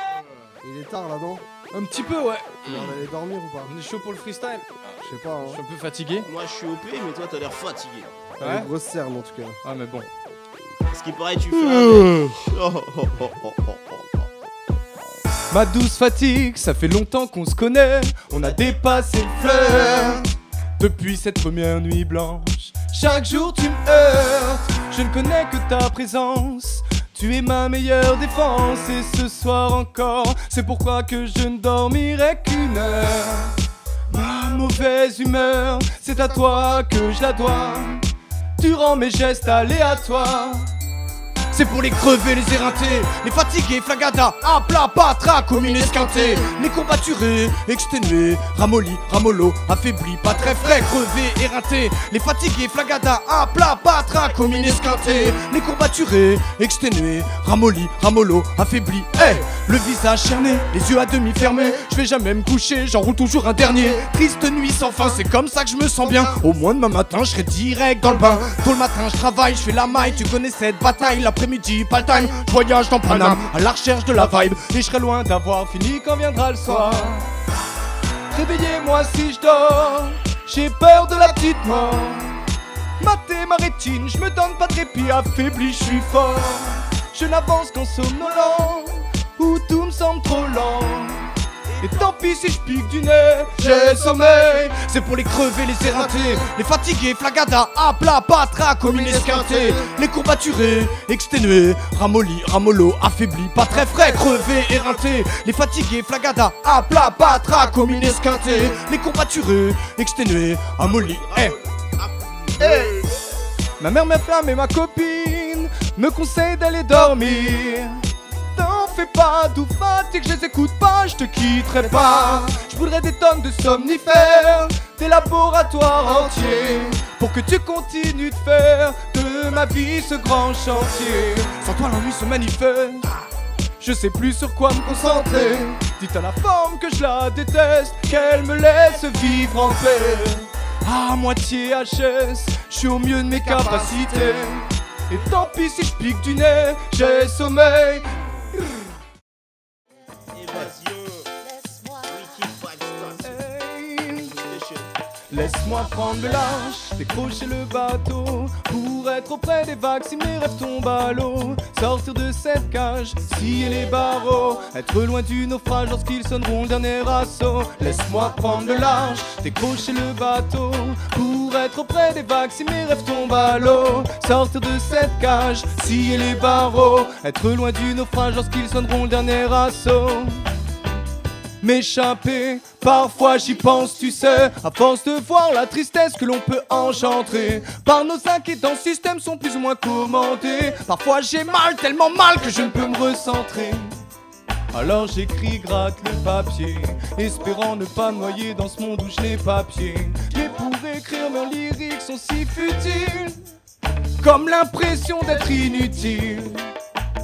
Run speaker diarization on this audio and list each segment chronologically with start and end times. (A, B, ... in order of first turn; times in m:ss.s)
0:00.6-0:01.5 A
0:01.7-0:02.8 B
0:02.6-0:03.8 A
0:03.7-0:04.7 B
0:05.0-0:05.6 A
0:05.4-0:06.3 B
0:06.3-0:08.1 C
0:08.4-0:09.6 A
0:08.4-0:08.7 B
0:09.6-0:10.1 B
0:10.9-0:14.0 C
0:15.5-0:33.6 B
0:34.1-0:38.0 B
0:38.6-0:40.7 B
0:41.5-1:17.3 B
1:18.3-1:22.4 B
1:23.0-1:51.6 B
1:33.8-1:34.1 A
1:38.8-1:39.9 A
1:48.0-1:48.5 A
1:51.3-1:52.8 C
1:52.6-1:53.0 A
1:53.8-2:13.1 B
2:02.0-2:02.4 A
2:13.8-2:28.2 B
2:23.3-2:24.0 A
2:30.3-2:31.3 C
2:32.0-2:33.4 C
2:33.2-2:34.4 B
2:34.2-2:34.9 C
2:35.3-3:00.5 B
3:01.6-3:14.0 B
3:14.7-3:23.4 B
3:24.2-3:26.7 B